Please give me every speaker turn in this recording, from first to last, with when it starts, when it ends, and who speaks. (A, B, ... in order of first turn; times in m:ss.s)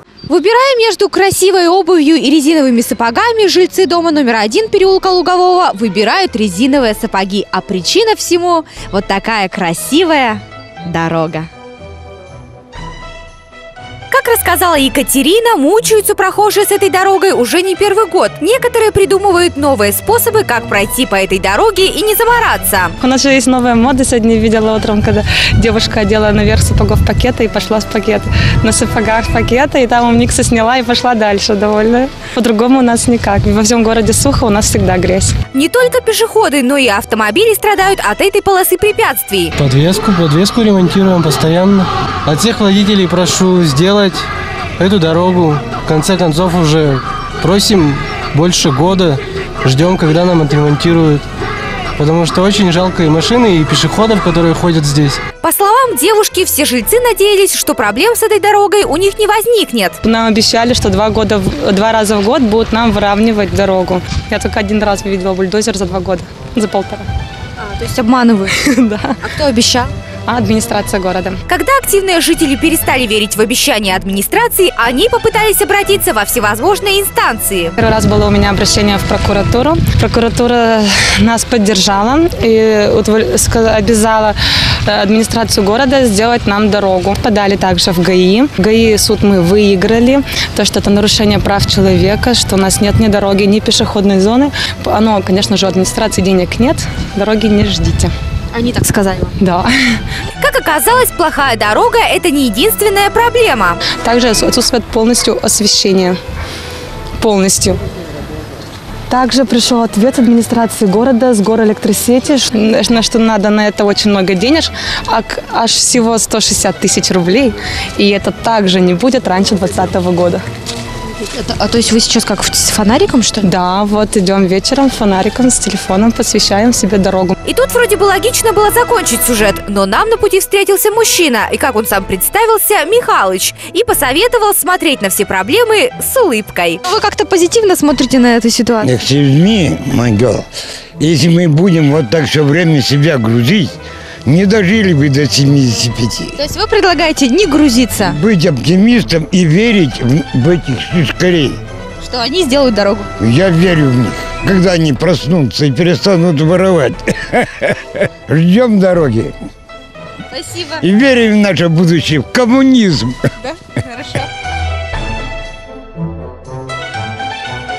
0:00.3-0:11.5 A
0:14.1-0:22.9 A
0:23.0-0:35.3 B
0:35.5-0:39.5 A
0:39.6-0:44.2 C
0:44.8-0:51.2 C
0:52.0-0:55.2 C
0:55.4-1:00.0 A
1:00.0-1:07.1 B
1:07.6-1:08.6 A
1:08.6-1:09.2 B
1:09.2-1:09.9 A
1:10.3-1:11.4 B
1:11.5-1:17.7 A
1:17.8-1:38.1 B
1:38.6-1:39.3 A
1:39.4-1:40.0 B
1:40.4-1:43.8 A
1:44.0-1:46.2 B
1:47.2-1:47.8 B
1:49.1-2:00.4 B
2:01.3-2:03.5 A
2:03.4-2:07.3 B
2:07.4-2:18.9 A
2:18.8-2:20.4 D
2:21.0-2:23.7 D
2:24.2-2:26.4 D
2:26.4-2:28.2 A
2:28.0-2:31.6 D
2:32.0-2:33.1 A
2:33.2-2:39.4 D
2:40.3-2:40.8 A
2:40.8-2:43.2 D
2:43.4-2:44.3 A